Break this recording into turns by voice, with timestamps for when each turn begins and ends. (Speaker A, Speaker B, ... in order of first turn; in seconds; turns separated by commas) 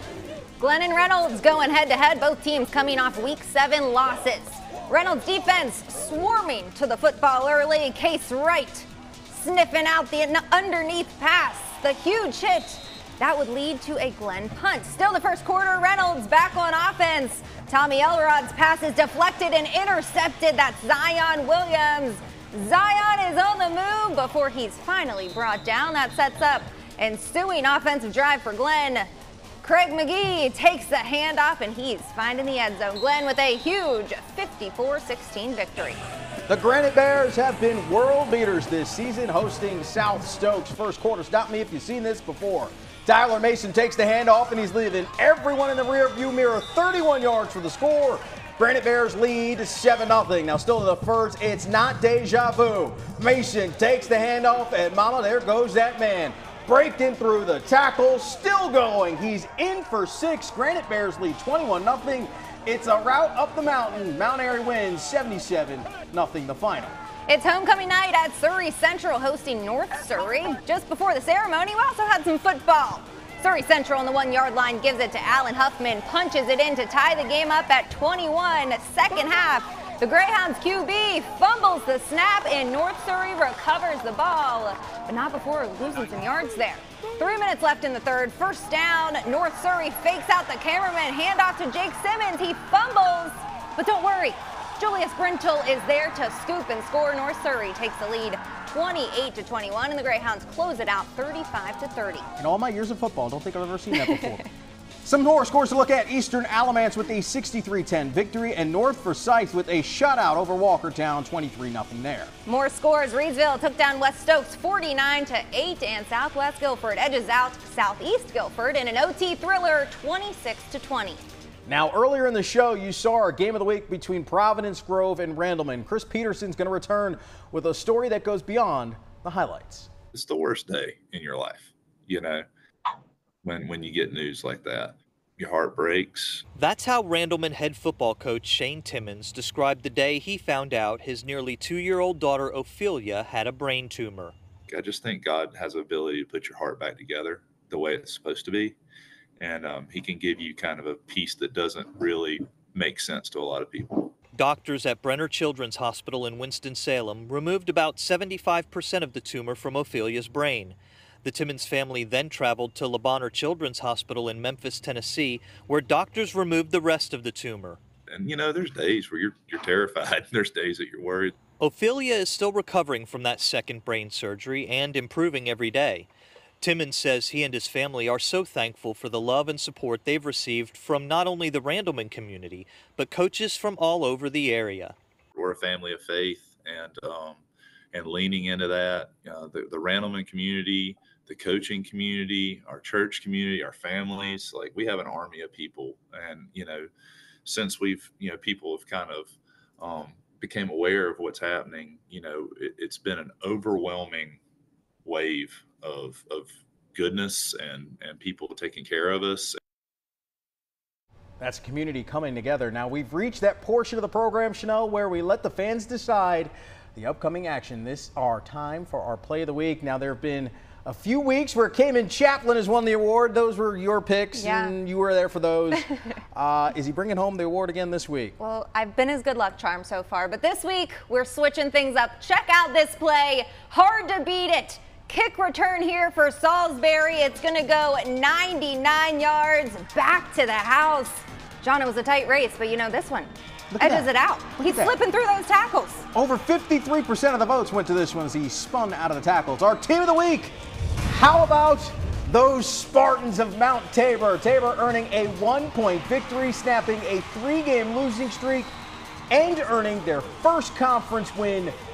Speaker A: 0.6-29.1, Speaker A: 29.6-36.0, Speaker B: 36.5-66.9, Speaker A: 67.3-102.2, Speaker B: 102.4-104.4, Speaker A: 103.9-104.4, Speaker B: 105.0-112.3, Speaker A: 112.5-121.2, Speaker B: 121.7-129.9, Speaker C: 130.1-132.5, Speaker C: 133.4-136.4, Speaker D: 136.5-144.3, Speaker C: 144.7-148.8, Speaker C: 149.4-154.1, Speaker D: 154.3-167.8, Speaker C: 168.1-171.4, Speaker D: 171.6-176.1, Speaker D: 176.6-184.9, Speaker C: 185.3-196.9, Speaker C: 197.4-204.4, Speaker C: 205.0-209.6, Speaker B: 211.4-228.3, Speaker A: 224.3-224.7, Speaker A: 228.4-246.1, Speaker B: 243.7-244.9, Speaker B: 246.1-250.5, Speaker B: 251.1-258.7, Speaker B: 259.3-261.7